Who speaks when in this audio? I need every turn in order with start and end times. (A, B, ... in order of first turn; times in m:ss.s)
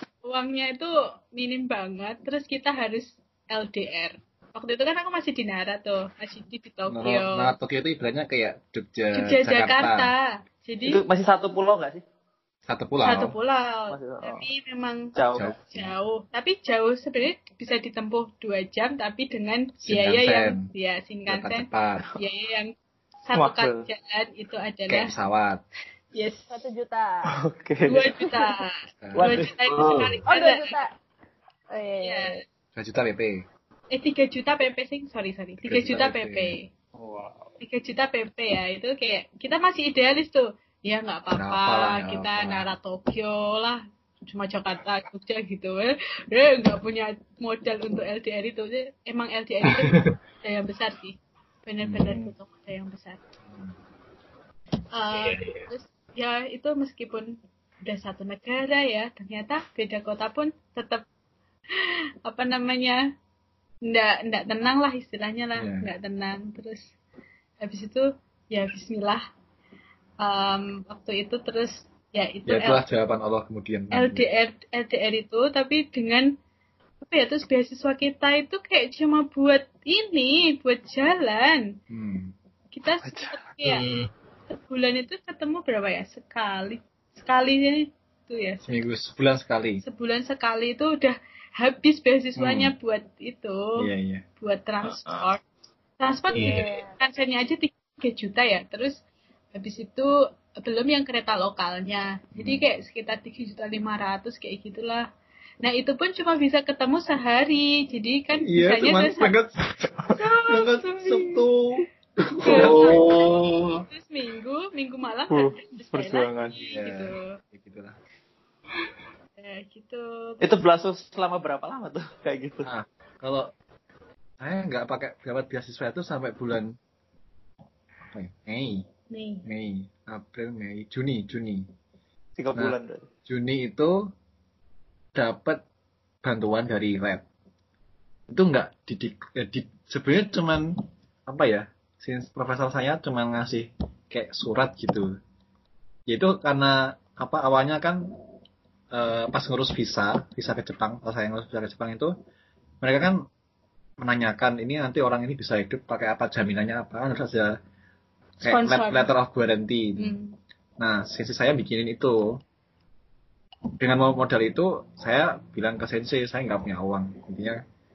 0:00.2-0:07.5 A
0:06.9-0:10.1 B
0:09.1-0:11.0 A
0:10.8-0:12.0 C
0:12.7-0:13.4 B
0:13.0-0:15.1 A
0:13.9-0:14.5 C
0:15.1-0:15.5 C
0:15.3-0:15.9 B
0:15.6-0:22.7 A
0:19.8-0:20.7 B
0:21.3-0:22.1 B
0:23.2-0:25.1 A
0:23.3-0:23.9 C
0:24.9-0:25.6 B
0:26.1-0:26.5 A
0:26.5-0:27.1 D
0:27.3-0:28.3 C
0:27.9-0:30.7 A
0:29.0-0:29.3 B
0:29.1-0:29.5 C
0:29.7-0:30.2 E
0:30.3-0:30.9 D
0:31.7-0:32.4 D
0:32.0-0:32.4 A
0:32.8-0:33.4 B
0:33.9-0:36.7 A
0:35.6-0:36.6 B
0:37.0-0:37.5 C
0:37.6-0:53.2 A
0:41.4-0:42.7 B
0:49.6-0:50.1 E
0:51.8-0:52.3 B
0:54.9-1:01.0 A
0:55.1-0:55.7 E
1:01.8-1:03.0 A
1:03.9-1:06.9 A
1:05.6-1:05.9 B
1:07.6-1:09.2 A
1:10.2-1:12.8 A
1:12.5-1:14.2 B
1:13.9-1:16.3 A
1:17.0-1:21.7 A
1:21.9-1:22.3 B
1:22.7-1:23.9 A
1:23.1-1:23.4 C
1:23.6-1:24.1 E
1:24.5-1:28.7 A
1:28.6-1:29.8 B
1:29.8-1:33.6 A
1:32.4-1:32.7 B
1:33.8-1:34.2 B
1:34.4-1:35.4 A
1:36.0-1:39.0 A
1:36.3-1:36.6 E
1:36.4-1:36.9 D
1:39.6-1:40.1 A
1:40.6-1:45.0 A
1:42.4-1:42.6 B
1:45.6-1:49.3 A
1:48.5-1:53.0 B
1:50.2-1:51.4 A
1:52.4-1:57.4 A
1:52.5-1:53.8 E
1:55.3-1:56.6 C
1:56.6-1:58.0 B
1:59.4-2:00.6 A
2:00.4-2:02.7 C
2:02.6-2:03.5 B
2:04.4-2:06.8 B
2:08.1-2:08.9 B
2:09.1-2:09.4 A
2:09.4-2:11.7 B
2:12.4-2:13.1 C
2:12.6-2:14.0 B
2:15.1-2:15.6 B
2:16.2-2:17.2 B
2:18.3-2:20.6 B
2:21.3-2:25.1 B
2:26.1-2:28.1 B
2:28.9-2:32.1 B
2:32.8-2:33.2 B
2:34.0-2:37.5 B
2:38.4-2:40.1 B
2:38.4-2:39.1 A
2:40.0-2:40.4 A
2:40.8-2:42.4 B
2:43.8-2:47.6 B